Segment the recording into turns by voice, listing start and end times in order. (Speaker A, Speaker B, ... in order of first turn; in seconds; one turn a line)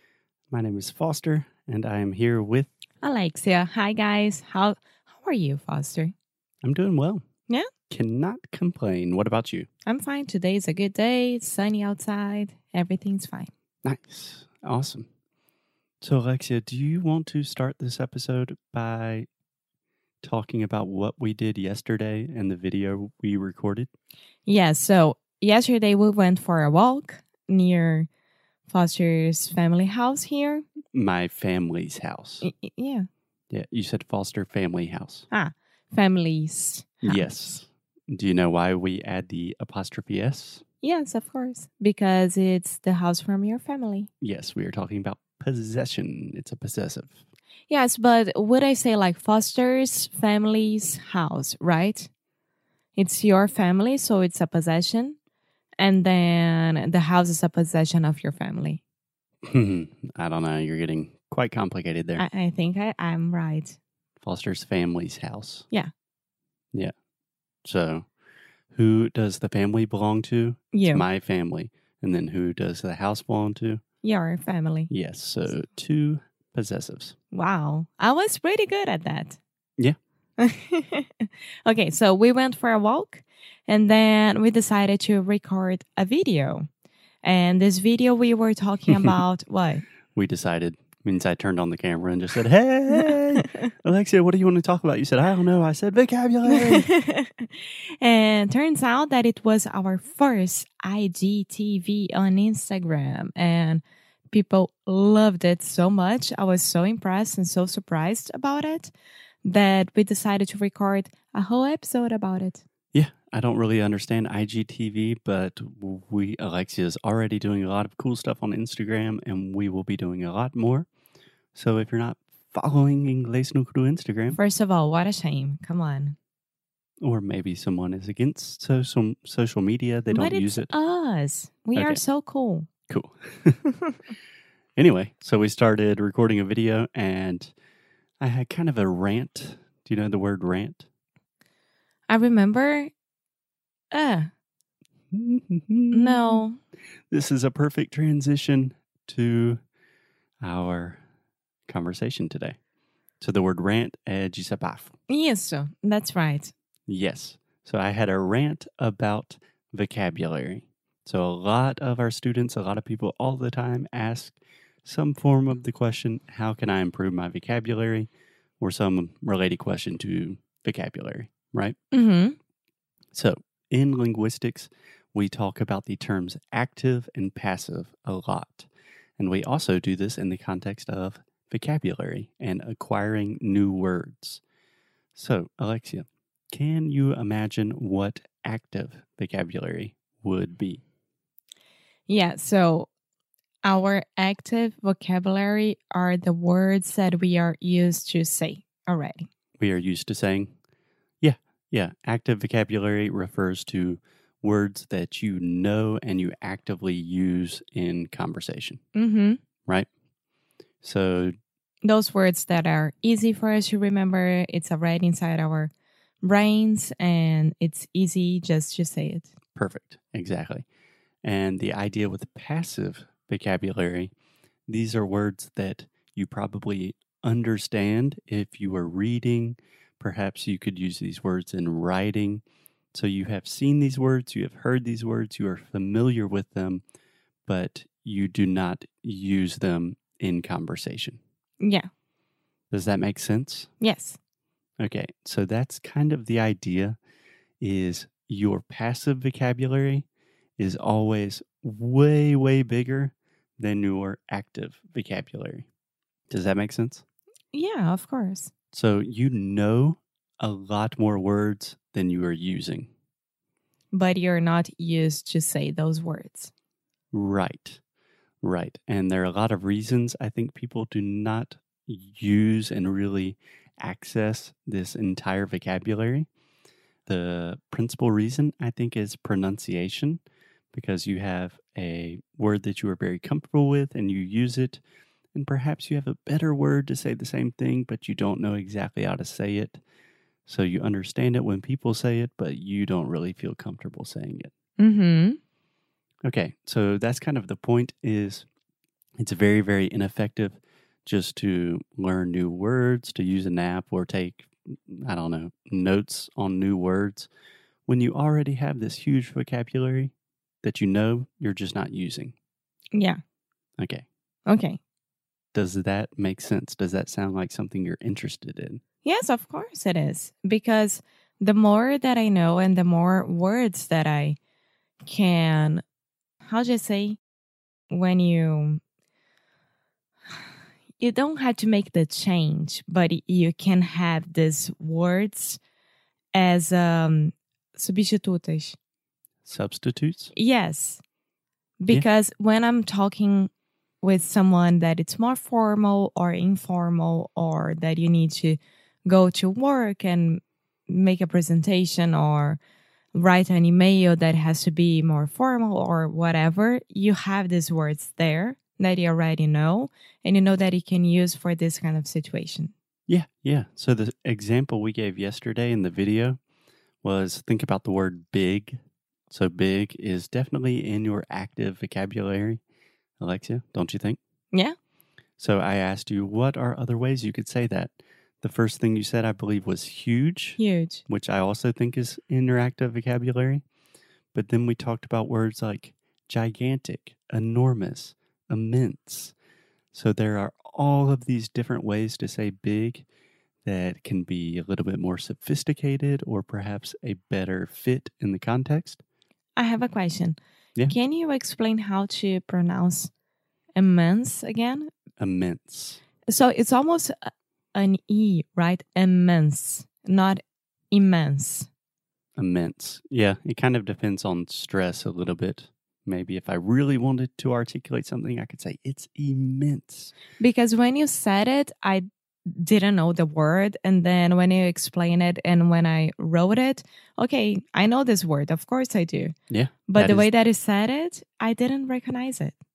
Speaker A: 0.5-2.7
Speaker B: 3.0-6.1
Speaker A: 6.6-7.2
Speaker A: 7.9-9.7
Speaker B: 9.8-13.5
Speaker A: 13.8-15.1
Speaker A: 16.0-19.3
Speaker A: 20.2-23.9
Speaker B: 24.4-28.1
Speaker B: 28.7-30.7
Speaker A: 30.9-32.5
Speaker B: 32.4-33.1
Speaker A: 33.5-35.3
Speaker B: 35.3-37.5
Speaker A: 37.0-40.6
Speaker B: 40.8-44.1
Speaker A: 44.2-47.2
Speaker B: 47.7-52.1
Speaker B: 53.0-55.1
Speaker B: 55.8-58.8
Speaker A: 59.5-62.2
Speaker B: 62.2-63.8
Speaker A: 64.2-65.7
Speaker A: 67.6-68.0
Speaker A: 68.7-73.8
Speaker B: 70.7-71.0
Speaker B: 74.0-74.9
Speaker A: 74.9-77.1
Speaker B: 77.3-79.4
Speaker B: 80.4-86.7
Speaker B: 87.2-89.8
Speaker A: 90.1-96.9
Speaker B: 92.9-93.5
Speaker B: 96.5-108.9
Speaker B: 109.4-112.6
Speaker A: 112.9-120.9
Speaker A: 121.5-124.4
Speaker B: 124.3-126.2
Speaker A: 127.0-130.7
Speaker B: 130.1-132.7
Speaker A: 131.7-132.0
Speaker A: 132.9-133.6
Speaker A: 134.8-137.5
Speaker A: 138.2-140.9
Speaker B: 142.1-142.9
Speaker B: 143.9-144.3
Speaker A: 145.1-146.4
Speaker B: 145.9-146.6
Speaker A: 147.1-149.6
Speaker A: 150.4-151.0
Speaker A: 151.7-152.6
Speaker A: 153.2-154.9
Speaker B: 155.1-156.5
Speaker A: 156.9-168.1
Speaker A: 168.6-171.8
Speaker B: 171.9-172.4
Speaker A: 173.1-184.4
Speaker A: 185.1-190.8
Speaker B: 192.1-192.9
Speaker B: 193.6-199.3
Speaker A: 199.6-200.5
Speaker A: 201.2-208.8
Speaker B: 208.9-209.4
Speaker A: 210.8-211.3
Speaker B: 211.8-215.7
Speaker B: 216.2-219.3
Speaker A: 219.6-220.6
Speaker A: 221.2-224.1
Speaker A: 224.7-232.4
Speaker A: 232.9-236.8
Speaker A: 237.4-241.2
Speaker B: 241.6-241.9
Speaker A: 242.7-243.7
Speaker B: 243.8-244.2
Speaker A: 244.8-247.0
Speaker A: 247.6-250.1
Speaker A: 250.6-255.7
Speaker A: 256.3-257.0
Speaker B: 257.5-258.5
Speaker A: 258.7-262.9
Speaker B: 263.9-266.5
Speaker A: 267.1-267.8
Speaker A: 268.4-276.3
Speaker A: 277.1-280.2
Speaker A: 280.7-284.8
Speaker A: 285.3-289.8
Speaker A: 290.4-294.5
Speaker B: 294.8-295.4
Speaker A: 296.2-298.4
Speaker A: 299.2-307.3
Speaker A: 307.9-310.1
Speaker A: 310.6-312.3
Speaker B: 312.9-313.2
Speaker A: 313.8-314.0
Speaker B: 314.5-314.8
Speaker A: 315.5-318.8
Speaker B: 319.0-324.4
Speaker B: 325.0-325.8
Speaker B: 326.4-327.2
Speaker B: 327.9-328.8
Speaker B: 331.0-335.6
Speaker B: 336.3-338.8
Speaker A: 339.4-340.3
Speaker B: 340.3-341.0
Speaker B: 341.8-343.5
Speaker B: 344.0-352.6
Speaker B: 353.1-362.7
Speaker A: 363.1-366.4
Speaker A: 367.0-368.8
Speaker A: 369.3-372.6
Speaker A: 373.2-374.2
Speaker A: 375.4-383.6
Speaker B: 380.6-381.0
Speaker A: 384.3-389.3
Speaker A: 389.9-393.0
Speaker A: 393.6-399.0
Speaker B: 399.6-403.1
Speaker B: 403.8-404.9
Speaker A: 405.2-406.0
Speaker B: 406.3-411.7
Speaker A: 412.4-420.1
Speaker B: 420.4-429.3
Speaker A: 429.5-430.3
Speaker B: 429.9-432.5